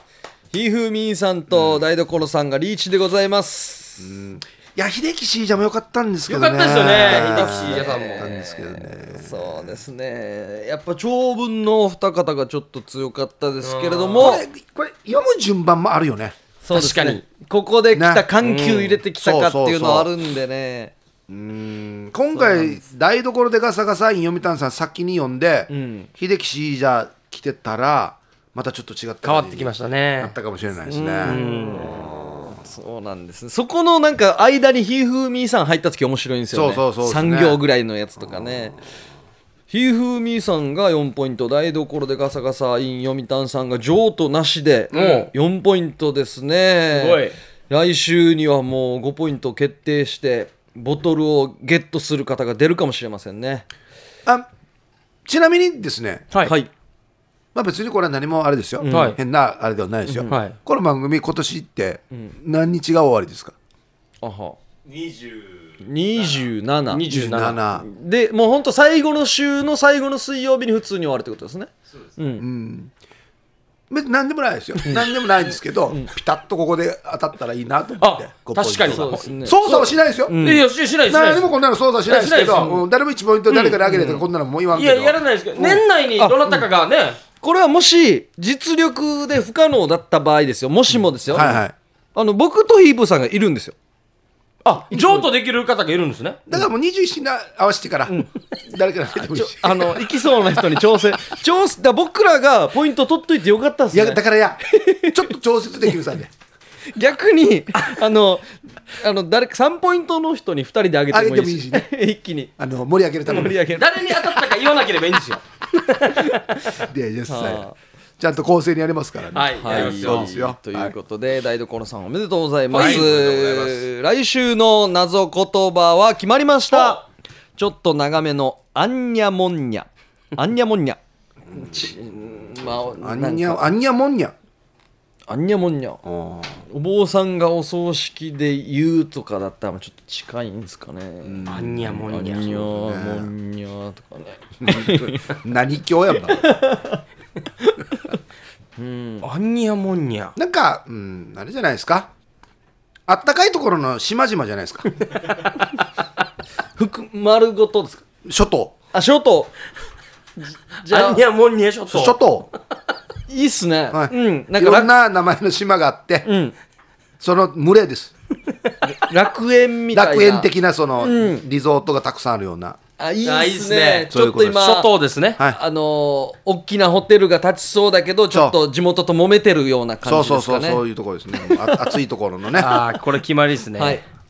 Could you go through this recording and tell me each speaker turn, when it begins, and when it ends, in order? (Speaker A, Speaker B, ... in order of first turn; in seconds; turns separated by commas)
Speaker A: 0.5-4.1, Speaker B: 1.5-1.8, Speaker B: 4.0-9.8, Speaker C: 6.3-8.3, Speaker A: 7.0-14.4, Speaker C: 13.6-14.4, Speaker B: 14.2-16.4, Speaker A: 16.6-20.9, Speaker C: 16.7-17.2, Speaker B: 17.9-18.3, Speaker C: 18.4-19.0, Speaker B: 19.1-20.1, Speaker B: 21.3-32.5, Speaker A: 22.3-22.8, Speaker A: 25.7-26.1, Speaker C: 29.2-30.3, Speaker A: 30.9-38.8, Speaker C: 31.2-31.9, Speaker B: 36.5-37.6, Speaker A: 39.7-53.7, Speaker C: 44.9-45.3, Speaker C: 46.9-47.4, Speaker B: 55.2-56.3, Speaker A: 56.4-56.7, Speaker B: 57.5-63.5, Speaker A: 58.8-59.2, Speaker C: 58.9-59.2, Speaker A: 60.1-60.3, Speaker C: 60.3-60.5, Speaker A: 64.2-64.6, Speaker A: 65.8-67.1, Speaker C: 66.9-67.6, Speaker B: 67.1-67.8, Speaker A: 67.8-72.4, Speaker B: 72.4-72.9, Speaker B: 73.9-80.4, Speaker C: 78.0-79.3, Speaker A: 78.9-80.6, Speaker C: 80.4-81.5, Speaker B: 81.1-85.8, Speaker C: 82.0-82.8, Speaker C: 83.5-84.0, Speaker A: 83.8-84.2, Speaker C: 84.7-87.2, Speaker A: 86.2-86.6, Speaker A: 87.4-91.6, Speaker B: 91.3-91.7, Speaker A: 92.1-93.8, Speaker C: 94.7-96.4, Speaker A: 94.9-95.3, Speaker B: 96.5-100.8, Speaker A: 99.3-105.2, Speaker B: 103.9-106.3, Speaker A: 106.9-112.5, Speaker B: 111.1-111.8, Speaker B: 112.6-113.6, Speaker A: 113.3-114.4, Speaker C: 113.7-116.6, Speaker B: 116.8-117.7, Speaker A: 117.3-117.8, Speaker B: 118.2-120.9, Speaker C: 119.3-120.3, Speaker A: 119.5-127.0, Speaker C: 122.7-123.8, Speaker B: 122.7-123.6, Speaker C: 126.7-127.0, Speaker A: 127.6-131.0, Speaker A: 131.5-133.7, Speaker B: 131.5-131.9, Speaker B: 132.6-134.3, Speaker A: 135.3-136.0, Speaker B: 136.0-136.6, Speaker A: 136.6-141.5, Speaker B: 141.2-143.3, Speaker C: 141.5-142.5, Speaker A: 142.1-145.3, Speaker B: 144.6-146.6, Speaker A: 146.3-147.0, Speaker A: 148.8-149.2, Speaker C: 149.2-150.3, Speaker B: 150.3-152.1, Speaker B: 153.1-154.9, Speaker A: 156.8-158.0, Speaker B: 158.2-158.8, Speaker A: 158.9-159.5, Speaker A: 160.4-161.2, Speaker C: 160.9-162.2, Speaker B: 161.9-162.5, Speaker A: 163.3-164.9, Speaker B: 163.9-166.3, Speaker A: 166.2-166.5, Speaker B: 167.2-168.1, Speaker A: 168.8-171.4, Speaker B: 169.9-172.8, Speaker A: 173.0-174.9, Speaker C: 173.2-175.4, Speaker B: 174.1-174.6, Speaker A: 175.5-180.8, Speaker B: 178.3-178.6, Speaker B: 180.0-182.8, Speaker A: 181.4-181.8, Speaker C: 182.5-184.0, Speaker A: 183.8-184.0